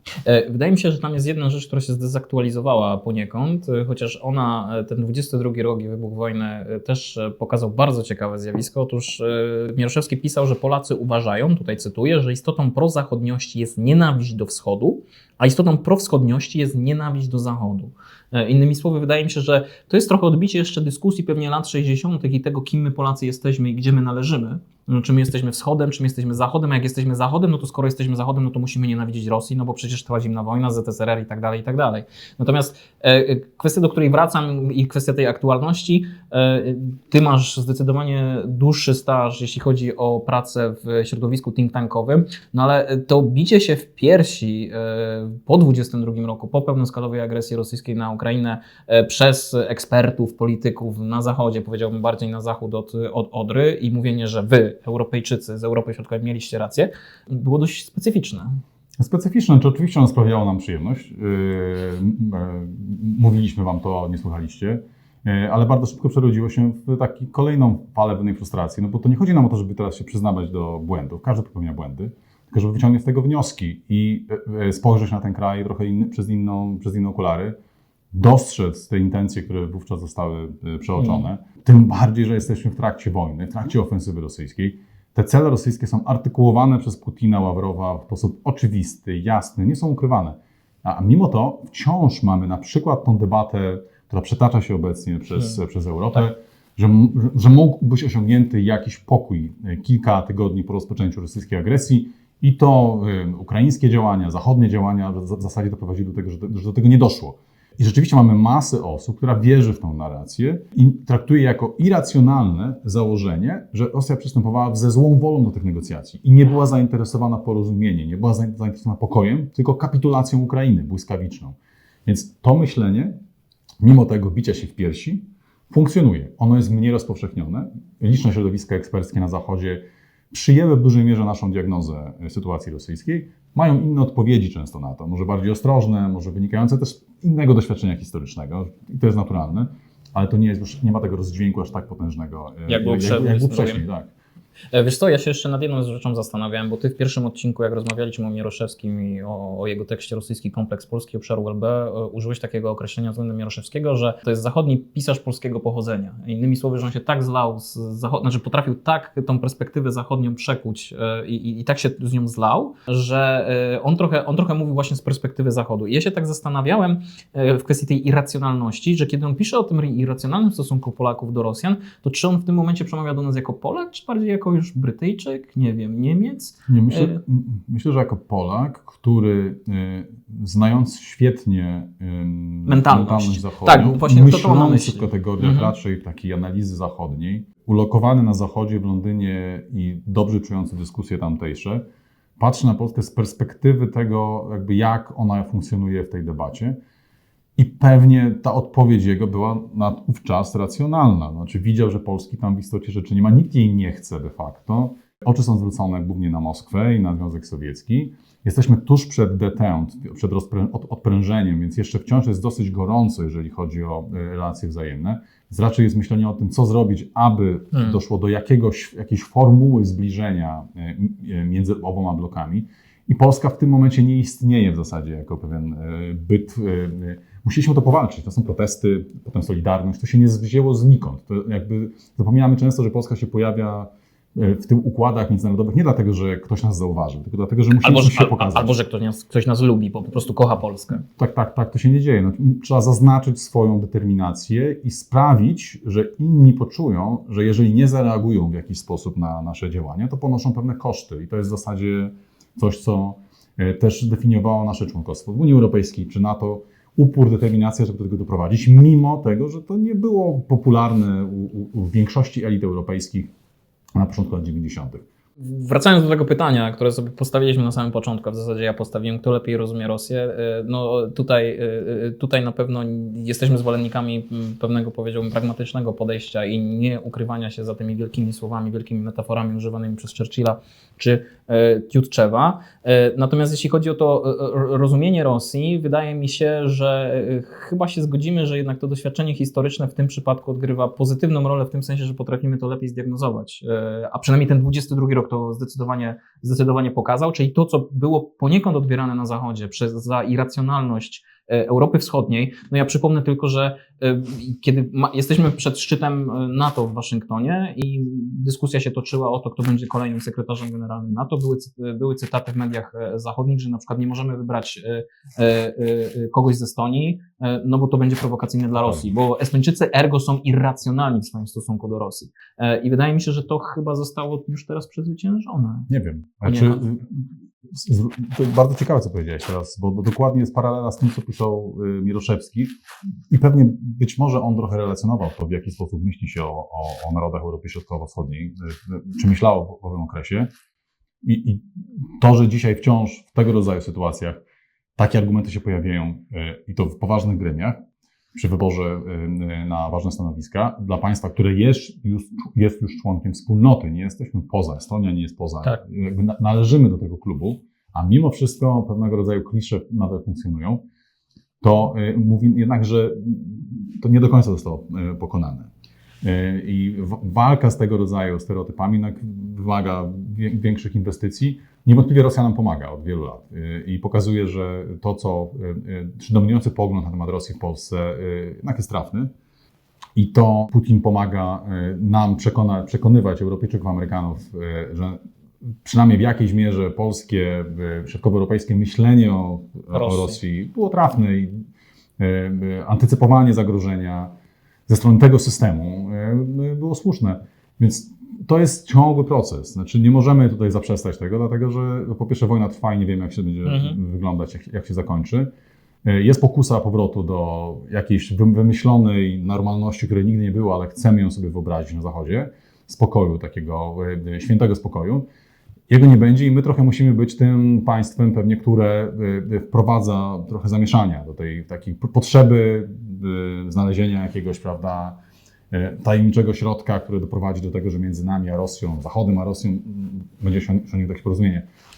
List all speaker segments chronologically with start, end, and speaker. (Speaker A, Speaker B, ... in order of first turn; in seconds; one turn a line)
Speaker A: 0.2-58.5
Speaker B: 59.0-77.5
Speaker B: 78.1-123.1
Speaker A: 81.0-81.3
Speaker B: 123.8-144.1
Speaker A: 142.7-143.8
Speaker A: 144.7-177.2
Speaker B: 176.7-191.8
Speaker A: 182.7-185.7
Speaker B: 192.4-196.8
Speaker B: 197.6-238.7
Speaker A: 217.7-218.0
Speaker A: 237.8-241.0
Speaker B: 241.2-263.3
Speaker B: 263.9-265.0
Speaker A: 265.4-325.9
Speaker B: 318.8-319.1
Speaker B: 325.9-332.7
Speaker A: 326.4-326.8
Speaker B: 333.3-340.5
Speaker B: 341.2-344.4
Speaker B: 344.9-347.8
Speaker B: 348.3-360.8
Speaker B: 361.6-365.7
Speaker B: 366.2-379.3
Speaker B: 380.1-385.2
Speaker B: 385.8-391.6
Speaker A: 389.9-390.4
Speaker B: 392.2-394.3
Speaker B: 394.9-405.5
Speaker A: 403.6-404.0
Speaker B: 406.0-415.2
Speaker B: 415.9-425.2
Speaker B: 425.7-431.6